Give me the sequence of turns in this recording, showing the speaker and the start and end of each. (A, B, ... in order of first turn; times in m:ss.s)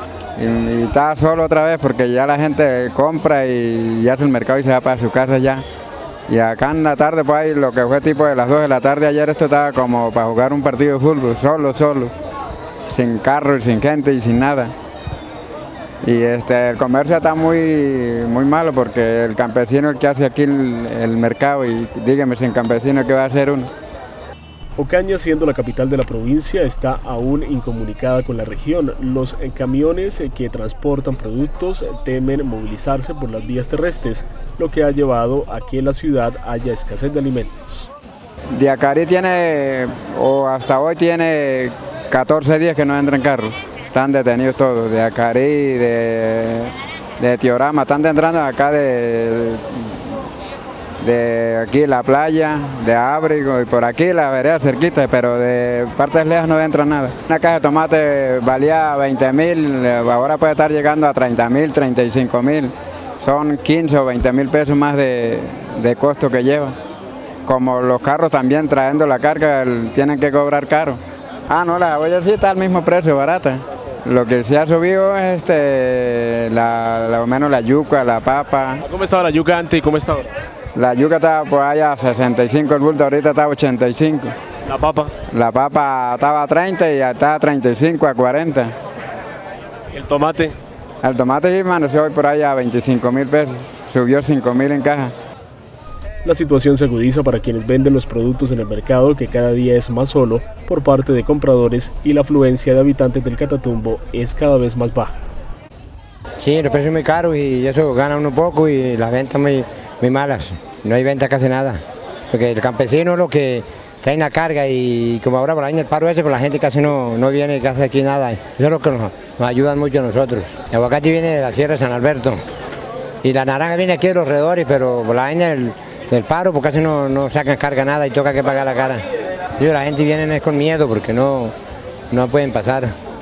0:00.4-0:05.6 A
0:06.3-0:12.1 A
0:12.9-0:14.7 A
0:16.0-0:23.7 A
0:24.8-0:37.9 B
0:38.6-0:50.0 A
0:51.0-1:06.8 A
1:07.5-1:18.8 A
1:18.8-1:20.3 B
1:20.8-1:24.3 A
1:24.7-1:25.2 B
1:25.3-1:28.8 A
1:29.9-1:30.6 B
1:31.0-1:35.1 A
1:36.2-1:45.2 B
1:46.4-1:51.8 C
1:52.3-2:02.4 C
2:03.2-2:09.0 C
2:09.6-2:11.5 C
2:12.1-2:12.9 C